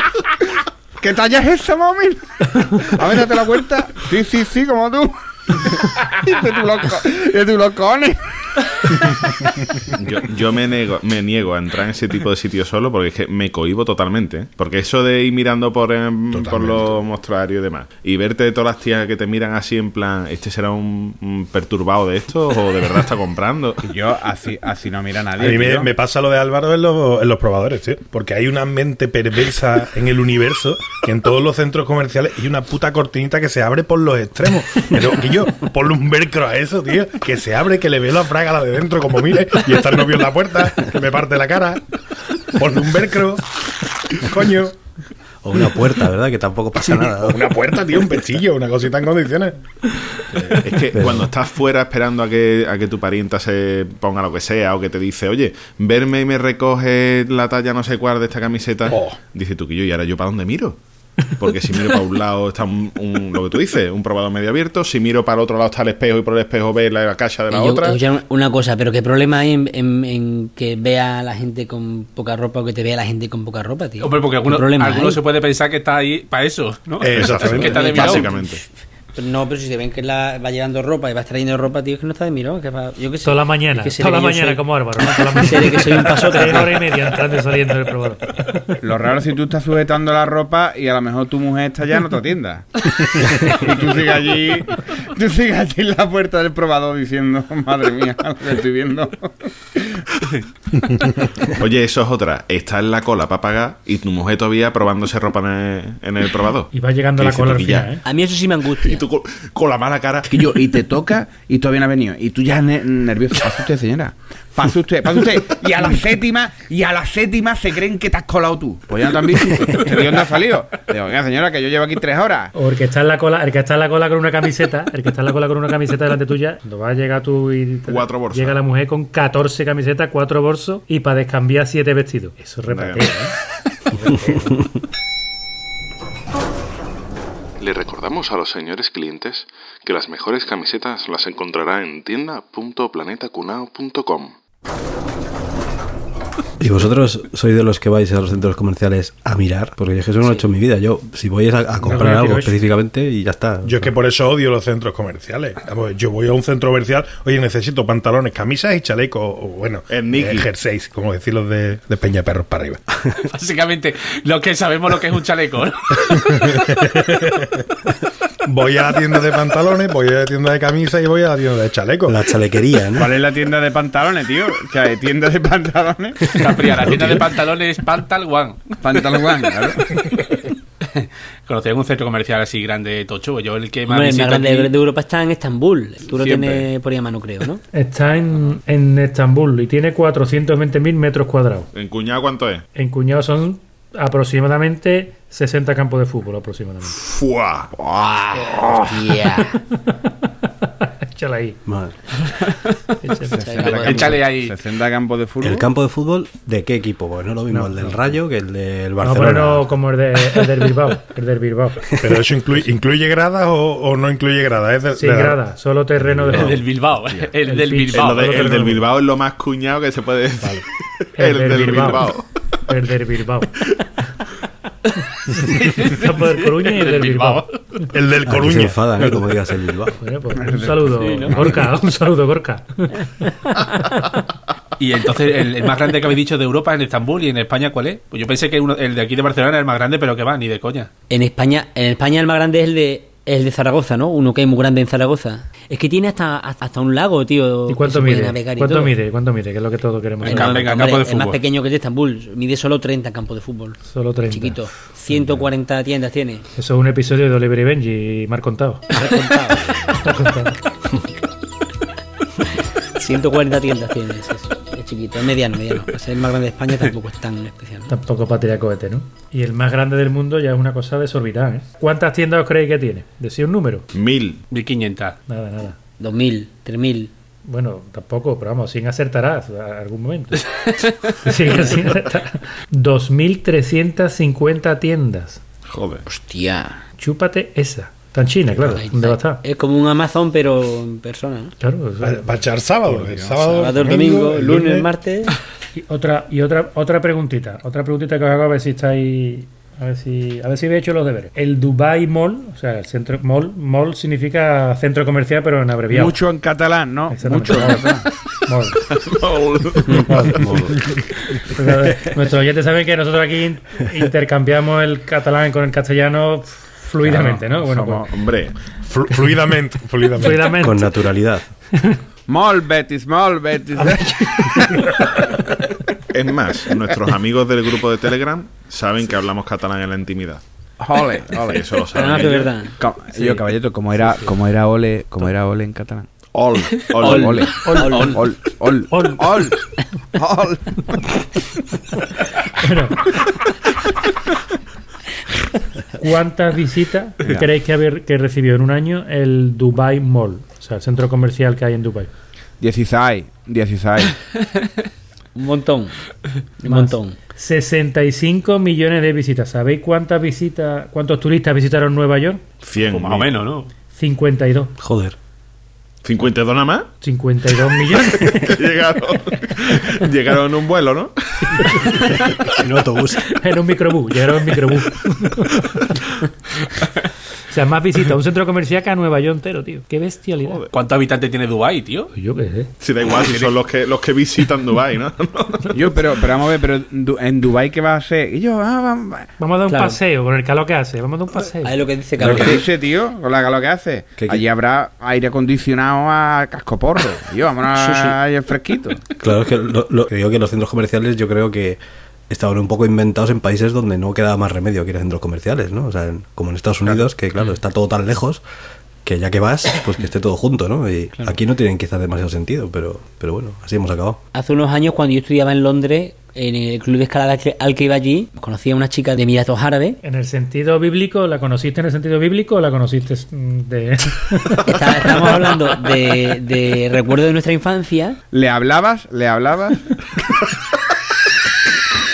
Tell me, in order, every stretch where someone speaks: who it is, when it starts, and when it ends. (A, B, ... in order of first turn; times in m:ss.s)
0:01.0-0:08.6 A
0:10.0-0:23.8 B
0:16.3-0:17.0 C
0:23.8-0:25.9 A
0:25.4-0:41.8 C
0:42.4-0:44.8 C
0:45.4-0:47.5 D
0:46.9-0:49.6 C
0:50.3-0:50.6 C
0:50.5-1:08.0 B
0:50.9-0:51.3 D
0:58.9-0:59.2 C
1:07.5-1:15.2 E
1:14.0-1:18.3 F
1:17.0-1:18.4 C
1:17.1-1:18.6 B
1:19.1-1:26.8 E
1:23.2-1:28.7 G
1:28.8-1:40.0 A
1:41.6-1:48.0 B
1:46.7-1:48.0 G
1:48.0-1:49.0 E
1:48.8-1:50.4 B
1:50.3-2:02.5 A
2:02.6-2:13.4 G
2:07.9-2:08.6 B
2:12.7-2:13.3 B
2:13.9-2:14.6 G
2:17.6-2:24.4 H
2:26.6-2:33.9 D
2:31.8-2:32.3 C
2:31.9-2:32.6 G
2:33.6-2:42.8 C
2:39.9-2:40.5 B
2:43.2-2:46.6 F
2:46.2-2:47.6 C
2:48.4-2:52.2 C
2:52.1-2:53.1 D
2:53.0-2:56.4 A
2:56.3-2:59.1 F
2:56.8-2:57.2 D
2:58.8-3:00.0 A
3:00.8-3:04.7 F
3:03.9-3:07.6 E
3:06.1-3:06.6 A
3:07.7-3:11.7 G
3:11.7-3:12.6 B
3:12.8-3:17.0 G
3:16.9-3:17.7 B
3:17.8-3:19.3 A
3:18.9-3:19.5 E
3:21.1-3:21.6 G
3:21.7-3:22.0 D
3:22.5-3:22.7 F
3:23.0-3:23.4 G
3:23.3-3:24.2 E
3:23.3-3:25.7 A
3:23.6-3:24.6 F
3:25.4-3:29.7 D
3:27.5-3:28.0 G
3:29.0-3:31.8 G
3:32.0-3:35.4 C
3:35.0-3:36.7 G
3:36.1-3:36.5 D
3:36.3-3:38.2 F
3:37.5-3:38.8 G
3:37.9-3:40.6 B
3:41.2-3:42.4 B
3:41.2-3:43.5 G
3:45.3-3:47.5 G
3:45.4-3:47.6 F
3:47.9-3:49.1 C
3:48.2-3:50.0 D
3:50.0-3:54.0 G
3:50.4-3:50.9 A
3:51.0-3:51.5 E
3:54.8-4:00.9 F
4:01.1-4:09.0 E
4:07.7-4:10.6 G
4:10.2-4:11.4 F
4:10.2-4:16.4 E
4:13.8-4:15.4 G
4:16.6-4:18.8 G
4:18.9-4:19.8 E
4:19.9-4:20.6 G
4:23.0-4:27.9 E
4:27.9-4:33.9 G
4:33.9-4:34.4 B
4:34.5-4:35.2 F
4:35.3-4:35.8 G
4:36.0-4:37.1 E
4:37.5-4:40.5 G
4:40.6-4:41.1 F
4:41.2-4:45.4 G
4:45.7-4:46.0 B
4:46.1-4:46.8 E
4:47.0-4:49.4 G
4:48.7-4:51.5 E
4:51.6-4:52.3 G
4:52.0-4:54.9 C
4:52.9-4:53.7 A
4:53.5-4:55.4 E
4:55.8-5:06.2 G
5:05.9-5:08.1 A
5:07.1-5:08.9 G
5:08.9-5:10.3 B
5:09.9-5:10.5 G
5:10.4-5:10.9 D
5:11.4-5:18.0 G
5:17.1-5:18.2 A
5:18.1-5:18.6 B
5:18.8-5:20.6 C
5:20.2-5:21.0 G
5:20.6-5:21.5 D
5:21.7-5:22.0 G
5:22.3-5:24.7 A
5:26.1-5:30.4 B
5:30.8-5:36.1 A
5:31.3-5:32.6 B
5:31.9-5:33.4 E
5:36.3-5:37.8 B
5:37.0-5:38.2 E
5:37.0-5:39.6 A
5:37.0-5:38.2 G
5:38.9-5:39.3 G
5:40.2-5:41.0 A
5:42.6-5:43.1 G
5:46.0-5:52.1 G
5:47.2-5:47.5 A
5:52.6-5:54.2 A
5:55.4-5:56.0 E
5:56.6-5:57.2 E
5:56.6-6:02.4 G
6:02.6-6:03.3 B
6:02.9-6:03.7 F
6:03.9-6:04.7 G
6:04.8-6:05.2 D
6:06.0-6:06.9 B
6:07.0-6:08.4 G
6:08.1-6:11.9 B
6:12.6-6:13.2 D
6:13.4-6:15.5 G
6:17.5-6:20.6 G
6:20.4-6:20.7 B
6:20.7-6:22.1 F
6:22.1-6:22.7 G
6:22.8-6:25.9 B
6:23.2-6:23.5 F
6:25.7-6:29.3 A
6:29.4-6:31.8 G
6:29.7-6:30.0 E
6:31.6-6:32.6 E
6:32.2-6:32.6 D
6:32.2-6:39.0 A
6:34.2-6:34.4 D
6:37.8-6:38.2 E
6:39.2-6:48.4 D
6:49.0-6:54.2 D
6:54.3-7:00.0 E
7:00.0-7:04.7 G
7:04.7-7:08.2 E
7:08.3-7:09.9 A